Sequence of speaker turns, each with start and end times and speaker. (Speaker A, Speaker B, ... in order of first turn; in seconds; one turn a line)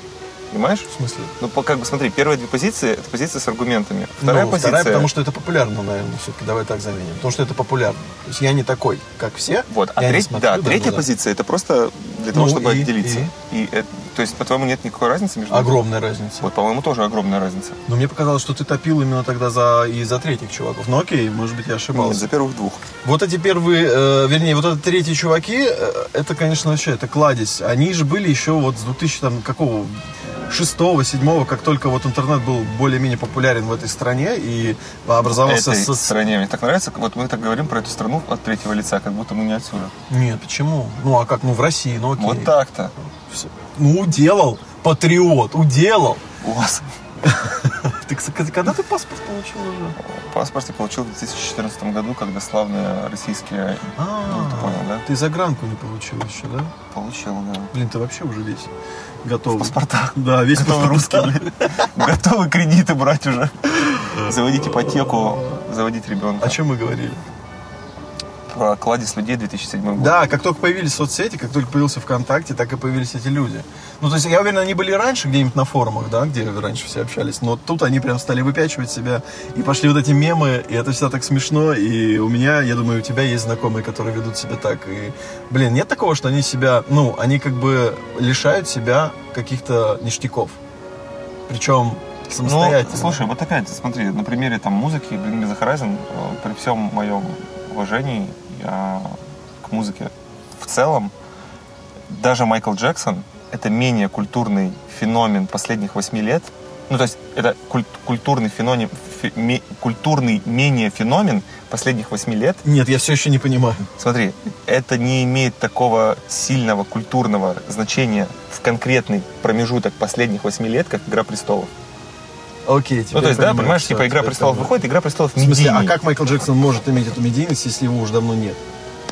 Speaker A: 0.5-5.1
Speaker B: 0.9-1.3
Speaker B: 4.2-11.1
Speaker A: 9.7-15.8
Speaker B: 12.3-13.3
Speaker B: 15.5-16.5
Speaker A: 16.4-17.8
Speaker B: 17.9-22.3
Speaker A: 21.9-22.9
Speaker B: 23.0-30.0
Speaker B: 30.5-36.1
Speaker A: 35.2-39.9
Speaker B: 40.1-42.5
Speaker A: 42.2-42.9
Speaker B: 43.1-46.2
Speaker A: 46.4-46.9
Speaker B: 47.2-50.0
Speaker A: 50.0-55.0
Speaker B: 53.9-56.7
Speaker A: 56.9-57.7
Speaker B: 57.7-58.7
Speaker B: 59.2-61.9
Speaker A: 59.5-66.6
Speaker B: 64.1-65.6
Speaker B: 66.4-67.2
Speaker A: 68.5-70.2
Speaker B: 70.0-90.6
Speaker B: 91.5-93.2
Speaker A: 92.4-101.1
Speaker A: 102.1-112.6
Speaker B: 112.6-113.9
Speaker A: 114.0-121.7
Speaker B: 122.7-124.8
Speaker A: 123.1-126.0
Speaker B: 125.3-128.6